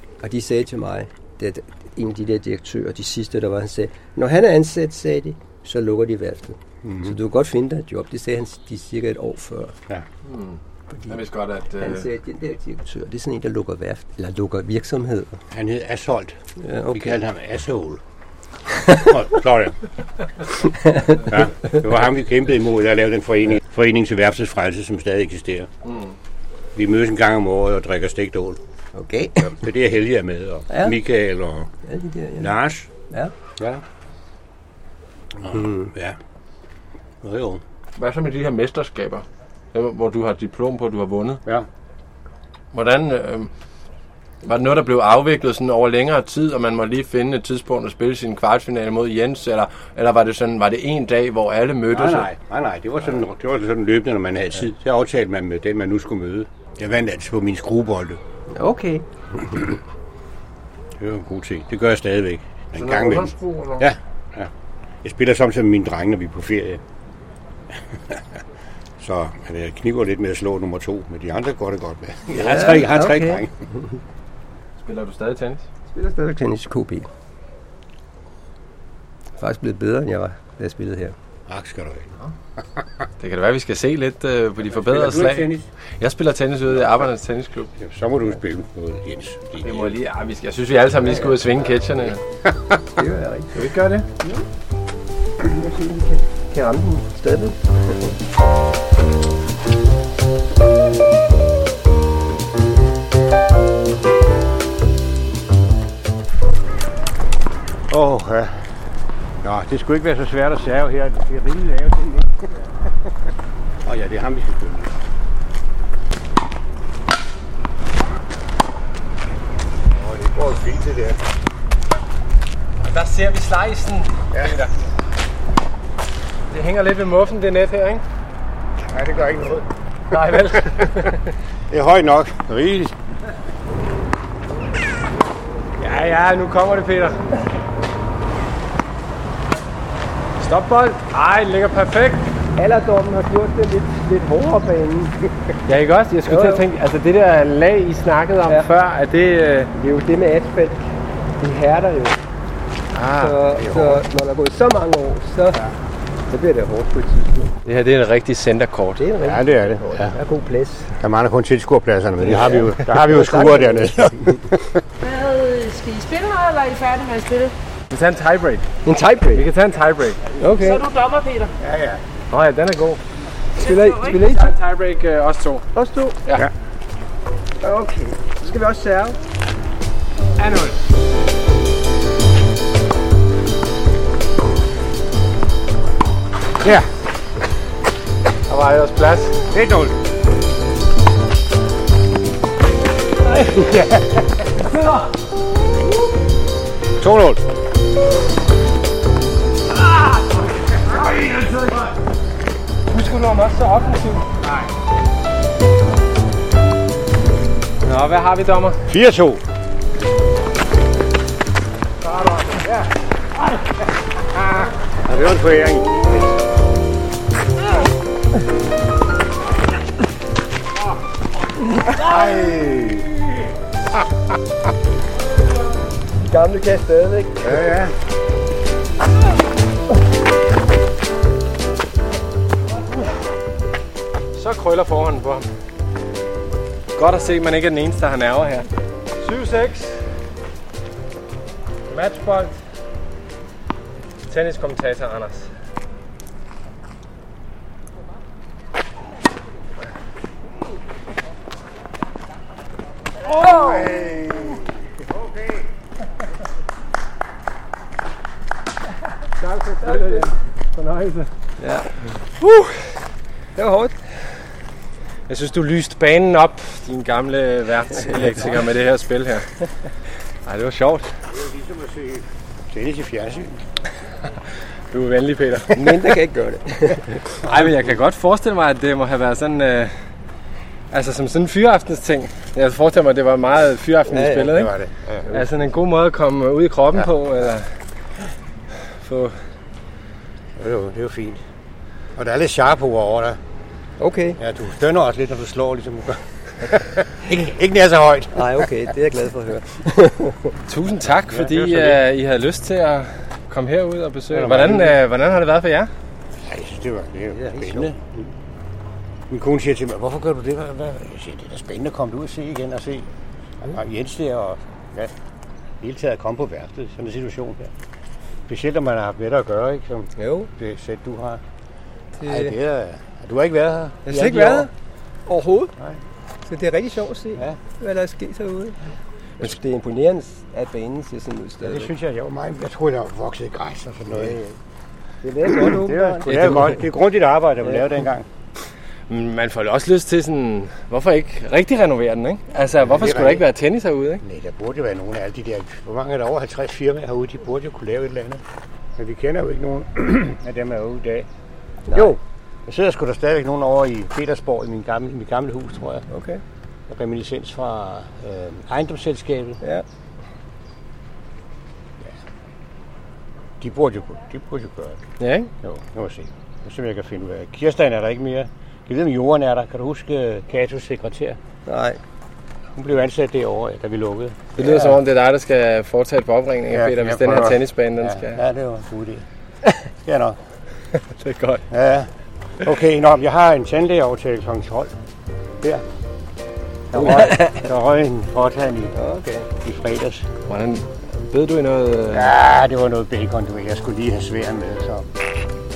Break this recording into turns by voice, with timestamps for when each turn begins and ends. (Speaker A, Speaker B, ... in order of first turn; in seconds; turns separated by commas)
Speaker A: 0.2-9.8, Speaker B: 6.8-7.1, Speaker C: 10.2-12.1, Speaker A: 10.9-11.2, Speaker A: 11.8-15.4, Speaker B: 15.5-16.4, Speaker A: 16.6-17.2, Speaker B: 16.9-18.0, Speaker B: 18.7-19.8, Speaker A: 20.6-21.3, Speaker B: 21.2-25.7, Speaker C: 25.9-26.1, Speaker B: 26.7-28.6, Speaker A: 28.9-29.6, Speaker B: 29.4-31.7, Speaker A: 30.7-30.9, Speaker A: 31.8-32.5, Speaker B: 32.4-32.9, Speaker B: 33.6-33.8, Speaker B: 35.3-36.2, Speaker A: 35.5-35.9, Speaker B: 37.2-37.6, Speaker C: 38.0-41.4, Speaker C: 42.7-43.5, Speaker C: 44.4-52.3, Speaker B: 51.9-58.2, Speaker A: 58.5-59.0, Speaker B: 61.0-64.5, Speaker C: 62.8-63.9, Speaker B: 65.0-66.8, Speaker B: 67.9-68.4, Speaker B: 69.0-73.7, Speaker A: 72.3-73.8, Speaker C: 74.8-75.7, Speaker A: 75.9-77.1, Speaker A: 79.4-81.1, Speaker B: 81.5-82.8, Speaker C: 83.2-87.7, Speaker B: 84.6-85.7, Speaker B: 87.8-90.0, Speaker C: 89.6-92.2, Speaker B: 92.5-92.8, Speaker A: 92.9-93.6, Speaker C: 93.5-94.1, Speaker A: 95.4-98.2, Speaker B: 107.9-108.7, Speaker B: 109.4-112.6, Speaker B: 113.8-115.0, Speaker B: 119.9-121.2, Speaker C: 122.8-124.8, Speaker B: 124.3-124.6, Speaker C: 126.5-128.0, Speaker B: 128.8-129.7, Speaker C: 130.1-131.3, Speaker B: 131.7-132.9, Speaker C: 135.8-137.4, Speaker C: 140.4-142.3, Speaker A: 142.6-145.3, Speaker C: 145.7-149.7, Speaker A: 146.3-146.6, Speaker A: 149.7-152.2, Speaker C: 152.9-153.5, Speaker A: 153.2-155.6, Speaker B: 153.6-154.0, Speaker A: 156.3-157.6, Speaker C: 157.6-159.0, Speaker A: 159.0-161.0, Speaker B: 159.2-160.2, Speaker B: 161.0-164.8, Speaker A: 162.2-164.5, Speaker D: 165.0-167.5, Speaker C: 167.9-168.7, Speaker A: 168.8-169.5, Speaker C: 169.3-170.2, Speaker A: 170.4-170.8, Speaker D: 170.4-171.5, Speaker B: 171.6-172.0, Speaker C: 172.3-173.0, Speaker D: 173.6-174.5, Speaker A: 173.6-174.6, Speaker C: 174.2-175.7, Speaker A: 175.7-176.2, Speaker A: 177.6-179.2, Speaker B: 180.3-180.8, Speaker B: 186.6-186.9, Speaker C: 188.5-189.4, Speaker B: 189.5-190.0, Speaker B: 193.2-194.6, Speaker C: 194.6-195.1, Speaker B: 197.0-197.4, Speaker C: 199.7-202.0, Speaker C: 202.9-204.3, Speaker B: 204.4-204.7, Speaker C: 207.8-208.8, Speaker B: 208.9-209.4, Speaker B: 212.0-216.1, Speaker B: 221.8-223.1, Speaker A: 226.3-227.8, Speaker B: 227.4-227.9, Speaker C: 234.3-235.5, Speaker C: 236.9-238.7, Speaker C: 239.2-240.0, Speaker C: 241.9-242.5, Speaker C: 244.3-245.5, Speaker A: 253.3-253.8, Speaker C: 253.4-253.8, Speaker B: 253.4-255.7, Speaker C: 259.4-261.3, Speaker A: 259.8-260.3, Speaker A: 261.6-262.0, Speaker C: 262.4-262.7, Speaker A: 263.6-264.0, Speaker C: 265.3-269.6, Speaker C: 270.4-271.1, Speaker B: 271.3-273.6, Speaker C: 274.9-276.2, Speaker A: 275.7-277.3, Speaker C: 277.3-279.9, Speaker C: 280.9-284.7, Speaker A: 284.1-284.6, Speaker B: 284.4-285.3, Speaker C: 285.3-287.7, Speaker C: 288.8-289.4, Speaker B: 290.6-291.4, Speaker B: 292.1-293.4, Speaker A: 294.0-294.4, Speaker B: 294.4-298.7, Speaker A: 298.3-300.6, Speaker C: 300.7-305.9, Speaker B: 301.3-302.0, Speaker B: 304.3-305.0, Speaker B: 306.4-308.2, Speaker A: 307.4-307.9, Speaker B: 309.3-313.1, Speaker B: 313.6-315.1, Speaker B: 315.8-317.7, Speaker B: 318.5-321.4, Speaker A: 320.2-320.5, Speaker A: 322.2-322.5, Speaker B: 322.2-324.6, Speaker A: 324.1-324.7, Speaker A: 325.3-325.7, Speaker A: 326.4-328.8, Speaker A: 329.4-331.9, Speaker B: 331.6-334.5, Speaker A: 335.2-336.8, Speaker B: 335.6-338.3, Speaker C: 336.2-336.7, Speaker C: 339.1-344.2, Speaker B: 342.8-343.5, Speaker B: 344.2-348.4, Speaker B: 349.0-351.3, Speaker A: 351.9-352.2, Speaker B: 351.9-356.1, Speaker A: 356.1-356.4, Speaker B: 356.9-359.6, Speaker B: 363.6-365.1, Speaker C: 365.2-365.5, Speaker B: 365.6-371.4, Speaker A: 371.7-372.0, Speaker B: 372.7-374.7, Speaker C: 374.6-378.4, Speaker A: 374.6-374.9, Speaker B: 376.7-379.2, Speaker B: 380.0-380.4, Speaker C: 380.9-381.6, Speaker B: 381.7-384.9, Speaker B: 386.9-388.9, Speaker C: 387.0-387.4, Speaker A: 388.9-389.5, Speaker B: 389.5-390.3, Speaker C: 390.5-392.3, Speaker B: 392.1-395.2